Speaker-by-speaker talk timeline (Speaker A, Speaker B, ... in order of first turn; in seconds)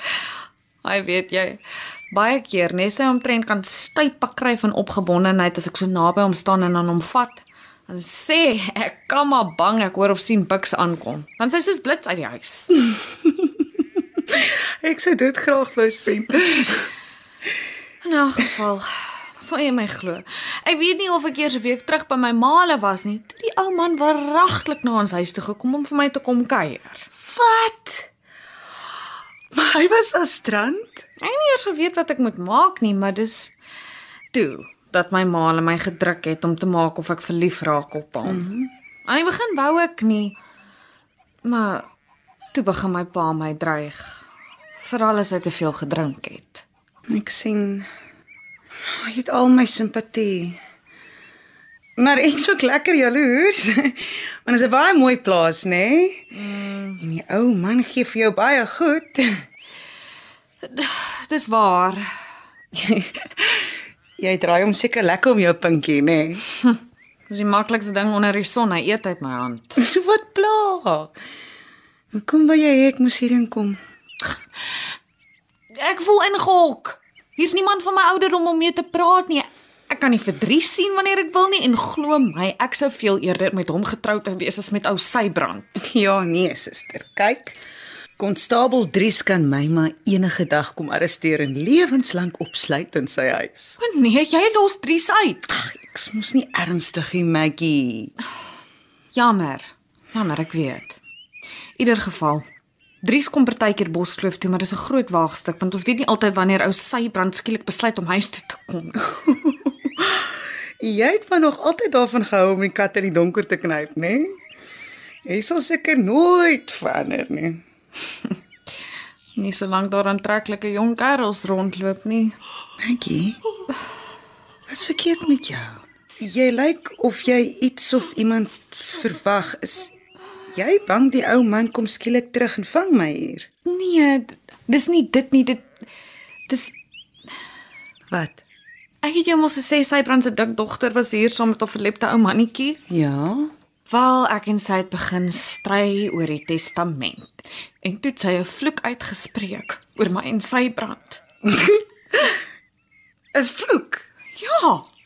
Speaker A: 0.8-12.8, 18.0-27.1, 31.2-33.5, 34.3-38.5, 39.1-40.4, 41.4-41.9, 42.5-44.2, 44.8-46.6, 56.4-57.0, 60.6-62.1, 67.3-69.8, 75.8-85.7, 93.8-95.5, 99.1-101.0, 101.8-102.5, 103.0-109.1, 119.3-122.4, 133.7-135.7, 136.5-136.7, 139.0-142.8, 143.9-151.2, 154.3-154.9
Speaker B: 14.3-16.8, 27.3-28.1, 29.5-31.1, 38.2-38.7, 47.1-47.9, 48.9-50.6, 52.0-56.3, 57.0-59.3, 62.7-66.4, 69.8-71.1, 72.1-73.8, 85.8-87.6, 88.2-93.8, 95.6-98.1, 109.3-110.2, 110.8-114.3, 115.3-117.6, 122.8-123.4, 124.7-129.9, 130.5-133.5, 138.1-138.4, 142.9-143.5, 153.3-154.1